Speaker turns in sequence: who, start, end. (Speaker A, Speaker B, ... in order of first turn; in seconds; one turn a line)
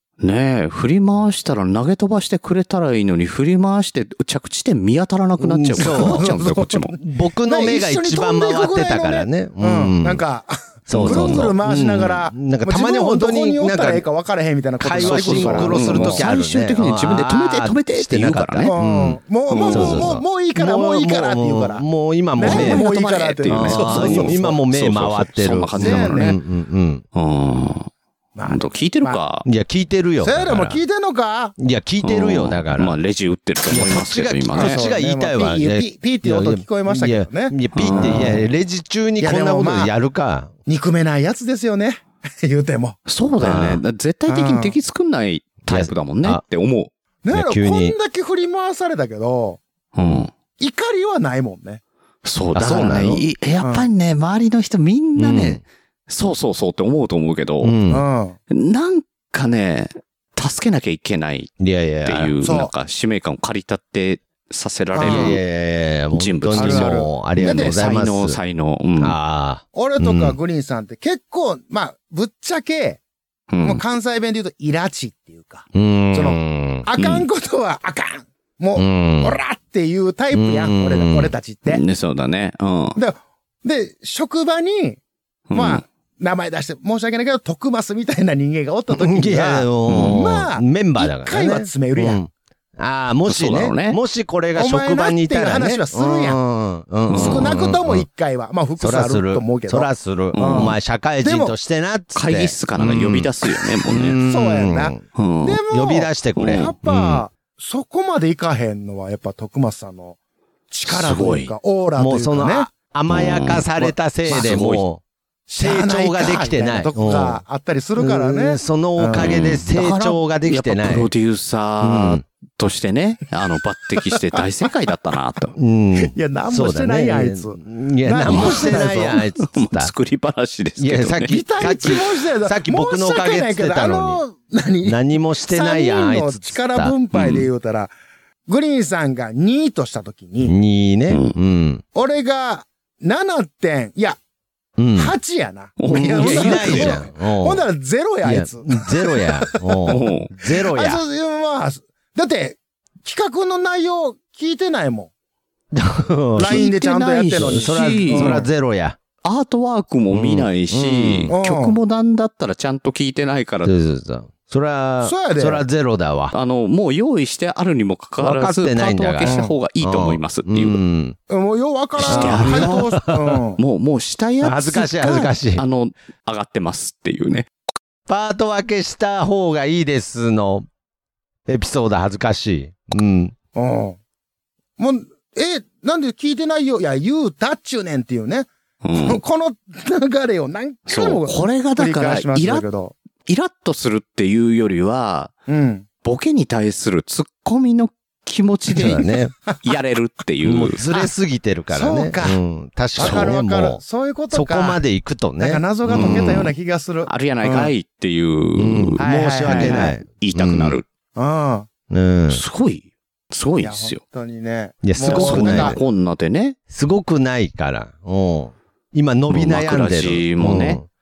Speaker A: 0.2-6.9
Speaker B: 5.4-6.3
Speaker C: 5.8-16.2
Speaker B: 7.0-10.2
Speaker B: 10.9-14.1
Speaker A: 10.9-11.5
Speaker B: 14.8-22.9
Speaker A: 15.0-18.7
Speaker C: 18.6-24.6
Speaker A: 19.5-20.1
Speaker A: 22.4-26.3
Speaker B: 23.5-27.0
Speaker C: 25.7-26.4
Speaker A: 27.1-27.9
Speaker C: 28.4-29.2
Speaker A: 28.4-29.4
Speaker B: 29.4-30.8
Speaker C: 30.2-31.5
Speaker B: 31.6-33.0
Speaker A: 32.0-34.8
Speaker B: 33.7-40.5
Speaker C: 34.5-38.4
Speaker A: 37.7-38.4
Speaker C: 39.2-39.9
Speaker C: 40.7-43.0
Speaker A: 43.0-46.9
Speaker B: 43.4-43.8
Speaker C: 44.3-44.7
Speaker B: 45.7-46.4
Speaker C: 47.2-49.6
Speaker B: 47.3-48.0
Speaker A: 49.9-50.3
Speaker C: 50.6-51.8
Speaker A: 52.2-57.7
Speaker B: 52.5-53.2
Speaker C: 52.6-53.0
Speaker C: 53.6-53.9
Speaker B: 55.1-55.6
Speaker B: 57.6-58.0
Speaker C: 57.9-58.4
Speaker A: 58.5-61.5
Speaker B: 61.6-62.3
Speaker A: 62.0-65.4
Speaker C: 62.4-62.7
Speaker C: 64.9-65.4
Speaker B: 65.0-68.4
Speaker A: 66.1-69.2
Speaker C: 66.5-67.8
Speaker B: 69.0-70.4
Speaker C: 69.7-73.0
Speaker A: 73.5-73.8
Speaker C: 73.6-81.8
Speaker B: 75.7-76.8
Speaker A: 77.0-77.2
Speaker B: 78.8-79.3
Speaker B: 80.3-81.3
Speaker A: 81.7-83.0
Speaker C: 83.0-85.0
Speaker A: 85.5-85.8
Speaker C: 85.5-92.2
Speaker B: 88.9-98.1
Speaker A: 89.9-90.1
Speaker A: 93.3-94.0
Speaker C: 94.6-96.4
Speaker A: 97.1-97.4
Speaker C: 97.1-101.5
Speaker B: 98.8-103.3
Speaker A: 100.3-100.7
Speaker A: 102.1-104.2
Speaker B: 103.8-105.0
Speaker C: 104.2-110.2
Speaker A: 105.2-105.6
Speaker B: 105.7-107.2
Speaker A: 106.4-106.7
Speaker C: 110.7-112.7
Speaker A: 110.8-111.5
Speaker B: 112.0-115.0
Speaker A: 113.1-114.8
Speaker C: 114.3-114.5
Speaker C: 115.5-119.3
Speaker B: 115.6-117.4
Speaker B: 118.0-121.1
Speaker A: 119.1-125.5
Speaker B: 121.8-122.2
Speaker B: 125.5-129.9
Speaker C: 126.0-129.2
Speaker A: 128.3-131.4
Speaker B: 130.8-134.2
Speaker C: 131.3-137.9
Speaker B: 134.8-136.9
Speaker A: 137.1-137.5
Speaker C: 138.5-140.6
Speaker B: 140.4-141.8
Speaker A: 141.1-141.3
Speaker C: 141.9-144.2
Speaker B: 144.8-145.1
Speaker C: 144.9-149.9
Speaker A: 145.8-146.9
Speaker B: 145.9-147.6
Speaker B: 148.2-151.0
Speaker A: 149.9-150.3
Speaker C: 150.5-155.1
Speaker B: 155.7-156.7
Speaker C: 156.3-158.5
Speaker A: 156.4-158.4
Speaker B: 157.4-159.0
Speaker A: 159.2-163.7
Speaker B: 160.1-161.3
Speaker C: 161.3-161.8
Speaker B: 163.6-166.3
Speaker C: 165.0-165.6
Speaker A: 166.3-170.8
Speaker B: 168.2-171.2
Speaker C: 169.2-169.5
Speaker C: 171.3-173.6
Speaker A: 172.0-172.9
Speaker B: 172.1-173.4
Speaker A: 173.6-177.5
Speaker B: 174.4-175.6
Speaker B: 178.1-180.7
Speaker B: 181.5-183.3
Speaker C: 183.5-184.0
Speaker C: 184.8-192.9
Speaker A: 188.8-189.2
Speaker A: 190.9-192.7
Speaker A: 193.3-195.3
Speaker C: 195.5-195.8
Speaker A: 196.0-199.0
Speaker B: 198.8-199.3
Speaker C: 198.8-199.6
Speaker A: 199.6-200.8
Speaker B: 200.4-206.5
Speaker C: 201.7-202.4
Speaker C: 202.9-204.8
Speaker A: 203.0-203.3
Speaker C: 205.4-207.7
Speaker A: 205.9-206.5
Speaker A: 207.0-210.8
Speaker B: 208.6-210.8
Speaker C: 209.0-210.0
Speaker C: 211.1-211.7
Speaker B: 211.9-212.4
Speaker A: 212.3-214.0
Speaker C: 213.6-215.8
Speaker B: 214.8-215.8
Speaker A: 215.0-216.6
Speaker B: 216.7-220.8
Speaker A: 219.3-220.8